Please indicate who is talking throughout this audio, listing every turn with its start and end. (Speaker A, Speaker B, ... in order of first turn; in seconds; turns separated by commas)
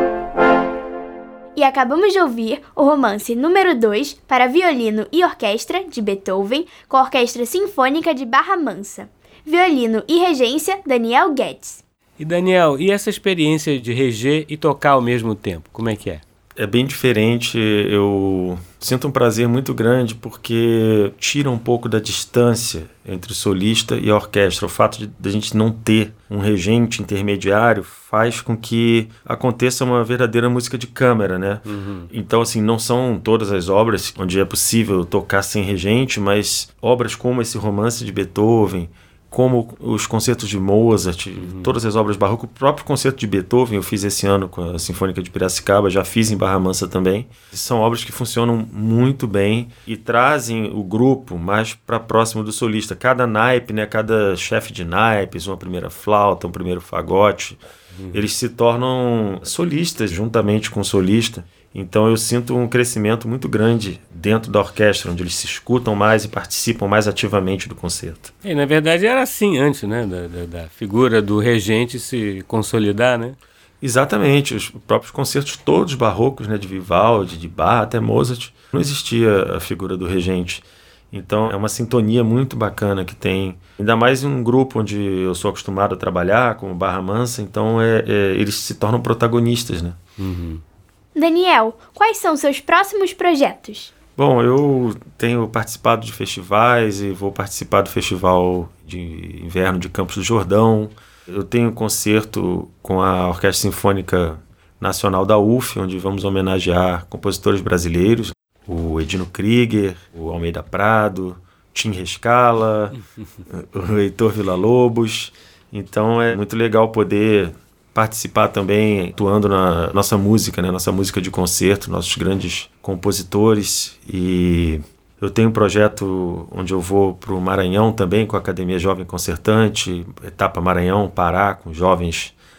Speaker A: 1.6-11.8, Speaker B: 12.2-16.2, Speaker C: 16.6-57.6, Speaker B: 31.7-32.1, Speaker B: 41.4-41.7, Speaker B: 58.0-58.3, Speaker C: 58.1-68.3, Speaker B: 68.4-73.4, Speaker C: 73.8-90.0, Speaker B: 90.2-90.6, Speaker A: 91.2-93.9, Speaker C: 94.2-132.3